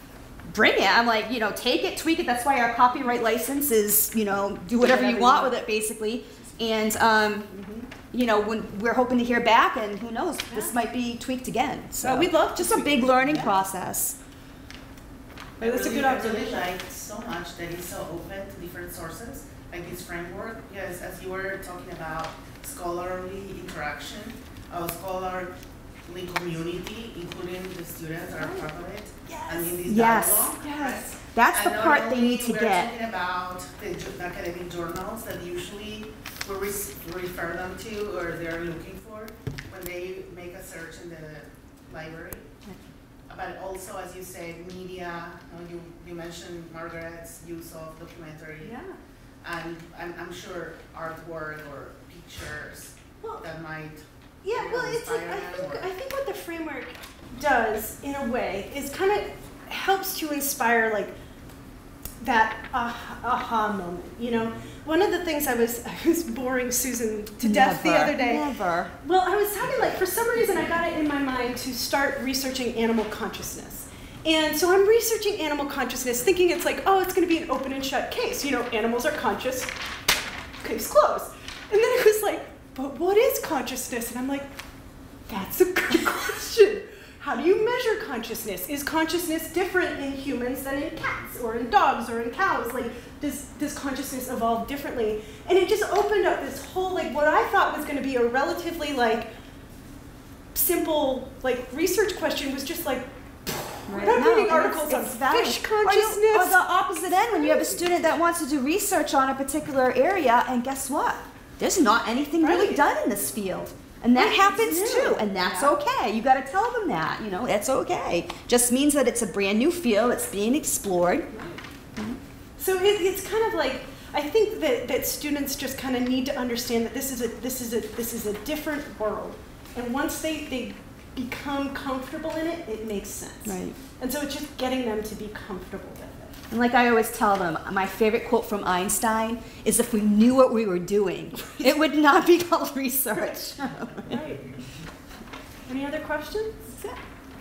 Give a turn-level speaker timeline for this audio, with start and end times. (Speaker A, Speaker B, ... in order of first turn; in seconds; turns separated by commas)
Speaker A: 0.5-7.5, Speaker B: 4.8-5.6, Speaker B: 7.5-7.9, Speaker A: 8.1-14.2, Speaker B: 10.5-10.7, Speaker B: 12.0-13.5, Speaker B: 15.6-16.7, Speaker C: 15.6-25.5, Speaker C: 26.0-42.5, Speaker B: 28.4-28.6, Speaker B: 29.3-29.7, Speaker A: 29.8-32.9, Speaker C: 43.3-48.8, Speaker A: 48.6-48.9, Speaker C: 49.4-55.9, Speaker B: 53.2-53.5, Speaker B: 54.4-61.1, Speaker B: 62.2-68.5, Speaker A: 67.4-68.9, Speaker B: 69.0-79.7, Speaker B: 80.6-84.5, Speaker B: 85.3-99.3, Speaker B: 100.5-106.6, Speaker A: 103.9-121.3, Speaker B: 107.3-107.8, Speaker B: 112.4-112.8, Speaker B: 114.1-115.7, Speaker B: 121.3-121.6, Speaker B: 122.6-136.4, Speaker A: 133.4-133.8, Speaker A: 136.5-144.2, Speaker B: 141.4-141.6, Speaker B: 144.1-144.5, Speaker B: 145.7-146.7